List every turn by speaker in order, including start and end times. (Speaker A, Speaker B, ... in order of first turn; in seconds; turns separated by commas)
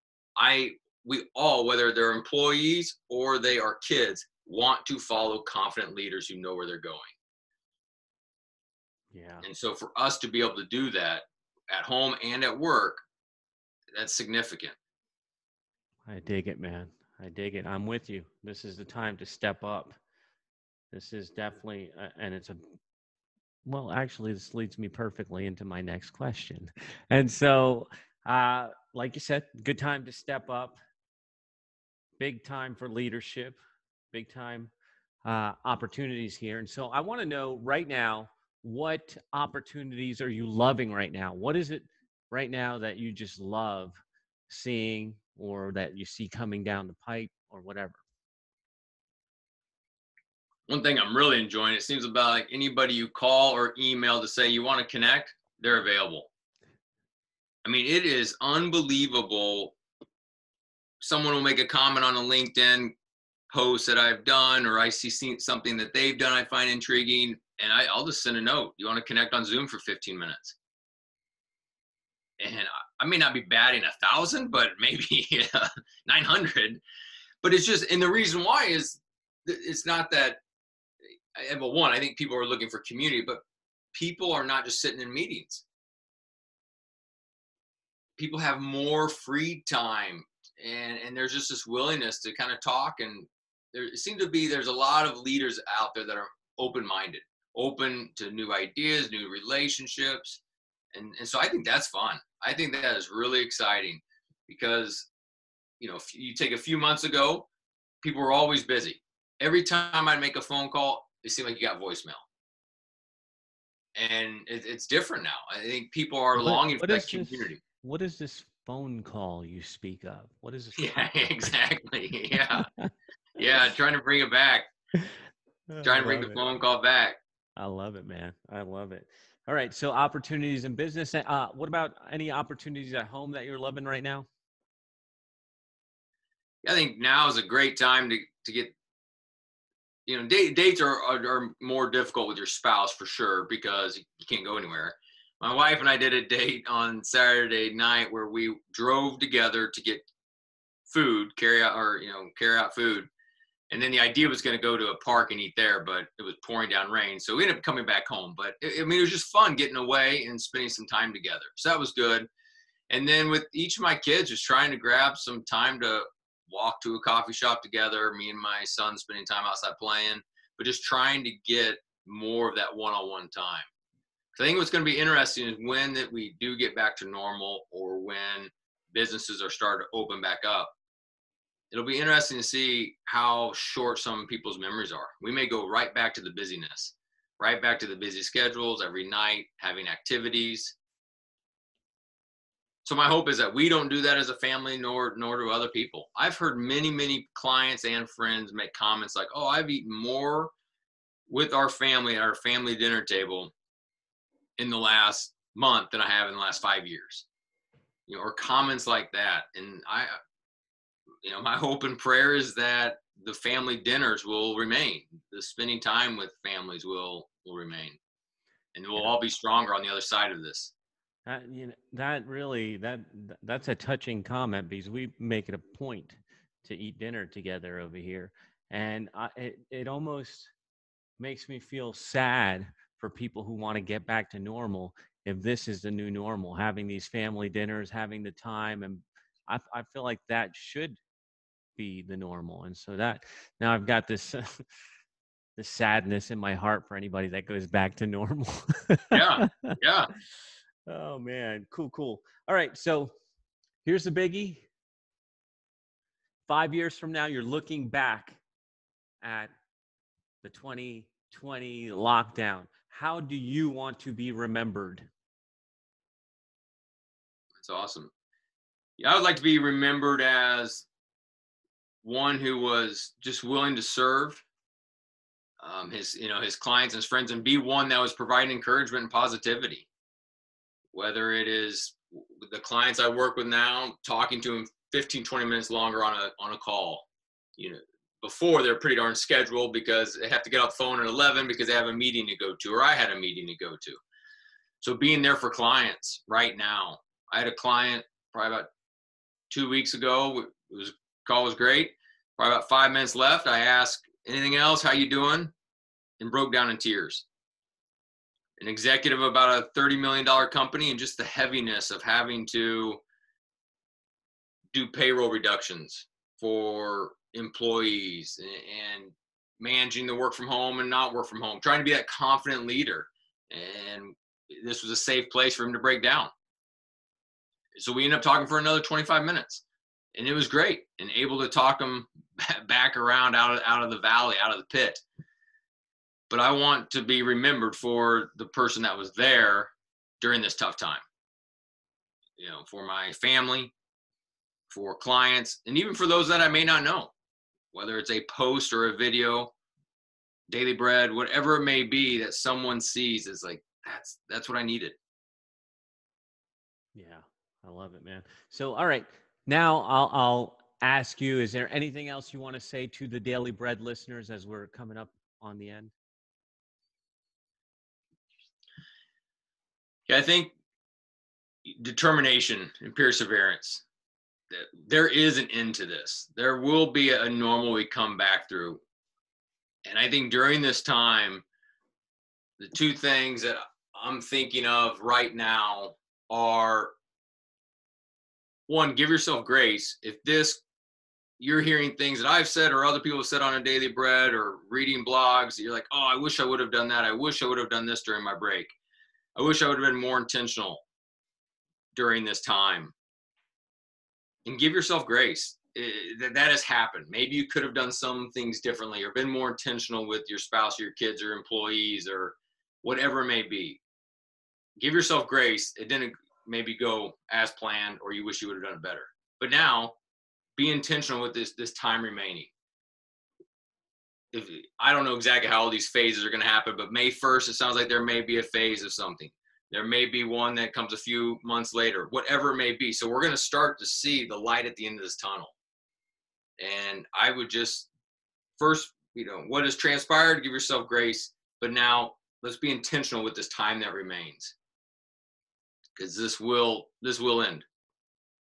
Speaker A: 0.4-7.1, Speaker B: 9.1-9.4, Speaker A: 9.4-13.0, Speaker A: 13.9-14.7, Speaker B: 16.1-19.9, Speaker B: 20.9-22.6, Speaker B: 23.6-30.8, Speaker B: 32.2-33.6, Speaker B: 34.1-34.7, Speaker B: 35.2-48.0, Speaker A: 50.7-56.3, Speaker A: 57.6-59.7, Speaker A: 61.0-62.9, Speaker A: 63.5-70.5, Speaker A: 72.4-76.8, Speaker A: 77.4-80.4, Speaker A: 81.3-83.4, Speaker A: 83.9-85.6, Speaker A: 88.2-100.4, Speaker A: 100.9-105.1, Speaker A: 105.8-107.5, Speaker A: 108.0-112.2, Speaker A: 113.9-117.6, Speaker B: 116.4-121.5, Speaker A: 120.8-122.7, Speaker B: 122.5-122.9, Speaker A: 123.3-124.7, Speaker B: 125.7-126.4, Speaker A: 125.8-127.2, Speaker B: 127.6-134.3, Speaker A: 136.6-138.7, Speaker A: 140.1-150.1, Speaker A: 150.9-153.1, Speaker A: 153.7-162.3, Speaker A: 162.9-173.7, Speaker A: 174.3-180.7, Speaker A: 181.7-190.8, Speaker A: 192.8-200.5, Speaker A: 201.3-203.5, Speaker A: 204.6-207.2, Speaker A: 208.1-210.1, Speaker A: 211.2-218.0, Speaker A: 218.7-220.7, Speaker B: 221.2-230.5, Speaker B: 231.2-241.0, Speaker B: 241.8-244.6, Speaker B: 245.6-249.8, Speaker A: 249.1-250.1, Speaker B: 250.9-253.1, Speaker B: 253.8-254.7, Speaker B: 256.5-258.4, Speaker B: 259.2-259.5, Speaker B: 260.4-265.1, Speaker A: 267.6-268.1, Speaker A: 269.0-270.9, Speaker A: 272.0-274.4, Speaker A: 275.6-279.9, Speaker A: 280.9-294.0, Speaker A: 294.8-298.7, Speaker A: 299.5-305.5, Speaker A: 306.2-307.2, Speaker A: 308.6-313.0, Speaker A: 314.7-326.3, Speaker A: 327.7-329.6, Speaker A: 330.1-335.0, Speaker A: 336.3-341.0, Speaker A: 342.4-343.7, Speaker A: 344.7-347.1, Speaker A: 347.7-349.5, Speaker A: 350.5-354.9, Speaker B: 356.9-365.9, Speaker A: 370.1-370.5, Speaker A: 371.6-373.8, Speaker A: 374.5-378.8, Speaker A: 379.8-381.4, Speaker A: 382.6-386.9, Speaker A: 388.7-390.6, Speaker A: 391.4-398.7, Speaker A: 399.4-400.8, Speaker A: 401.9-402.9, Speaker A: 404.4-413.8, Speaker A: 414.8-419.9, Speaker A: 420.6-422.5, Speaker A: 424.3-435.5, Speaker A: 436.6-437.9, Speaker A: 438.6-444.5, Speaker A: 446.0-447.6